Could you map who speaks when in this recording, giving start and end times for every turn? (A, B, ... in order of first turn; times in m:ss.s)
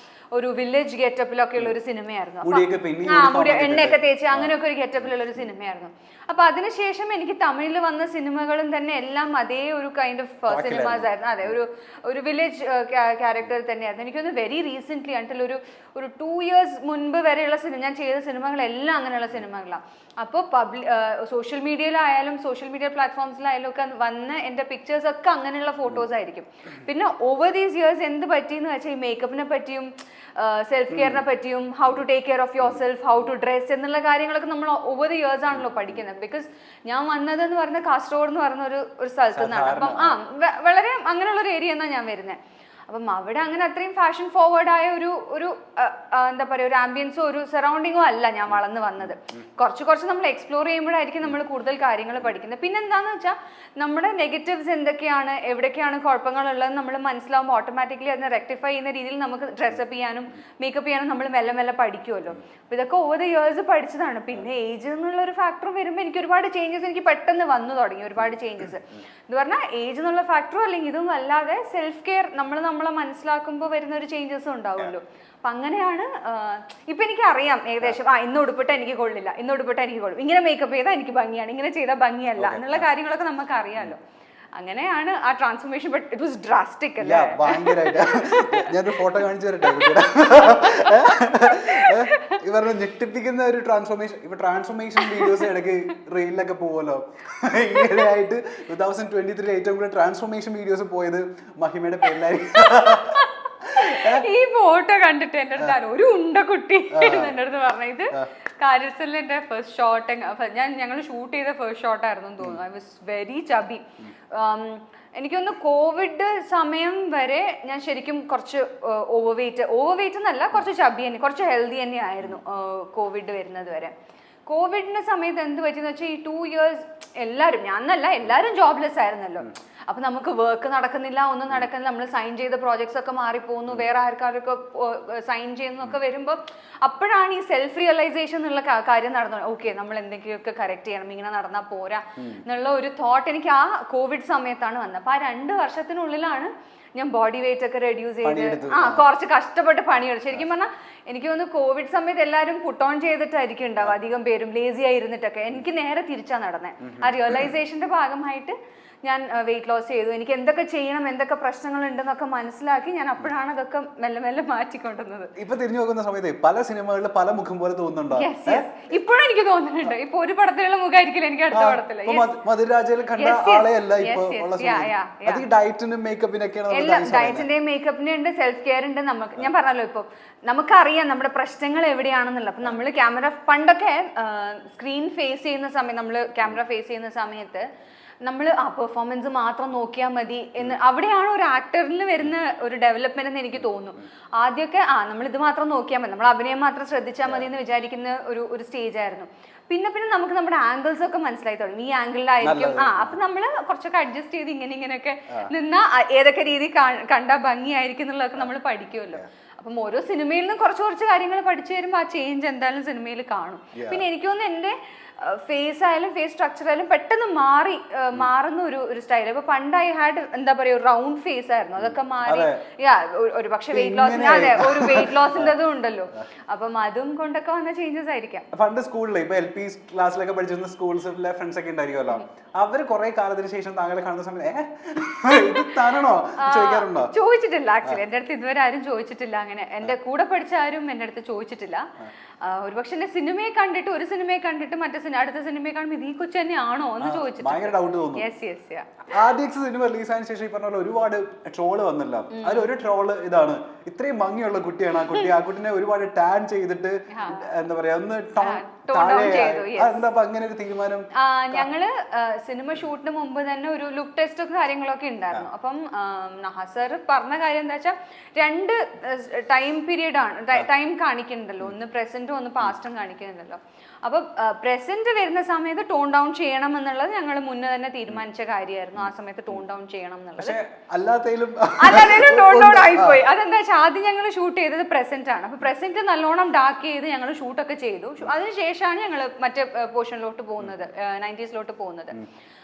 0:00.3-1:24.0 A
0:02.4-0:05.1 B
0:10.5-0:11.6 B
0:30.9-0:31.2 B
0:35.6-0:36.0 B
0:39.3-0:40.2 B
1:22.4-1:22.9 B
1:24.6-1:30.0 A
1:27.0-1:44.3 B
1:30.7-1:32.4 A
1:35.0-1:35.5 A
1:37.8-1:38.1 A
1:42.6-2:03.9 A
1:46.9-1:47.4 B
2:04.5-2:45.3 A
2:22.2-2:22.4 B
2:28.2-2:29.0 B
2:36.8-2:37.5 B
2:45.4-2:48.7 B
2:48.1-2:52.3 A
2:51.5-2:57.5 B
2:53.2-2:55.4 A
2:56.7-3:07.6 A
3:08.2-3:48.5 A
3:17.2-3:17.5 B
3:22.4-3:23.2 B
3:33.8-3:34.0 B
3:41.8-3:42.6 B
3:43.7-3:45.6 B
3:48.5-3:57.1 B
3:56.4-4:01.9 A
4:02.4-4:09.1 A
4:07.0-4:08.3 B
4:09.1-4:21.7 B
4:12.3-4:12.7 A
4:17.1-4:17.5 A
4:18.4-4:20.0 A
4:21.2-4:40.6 A
4:40.4-4:43.2 B
4:41.8-4:52.1 A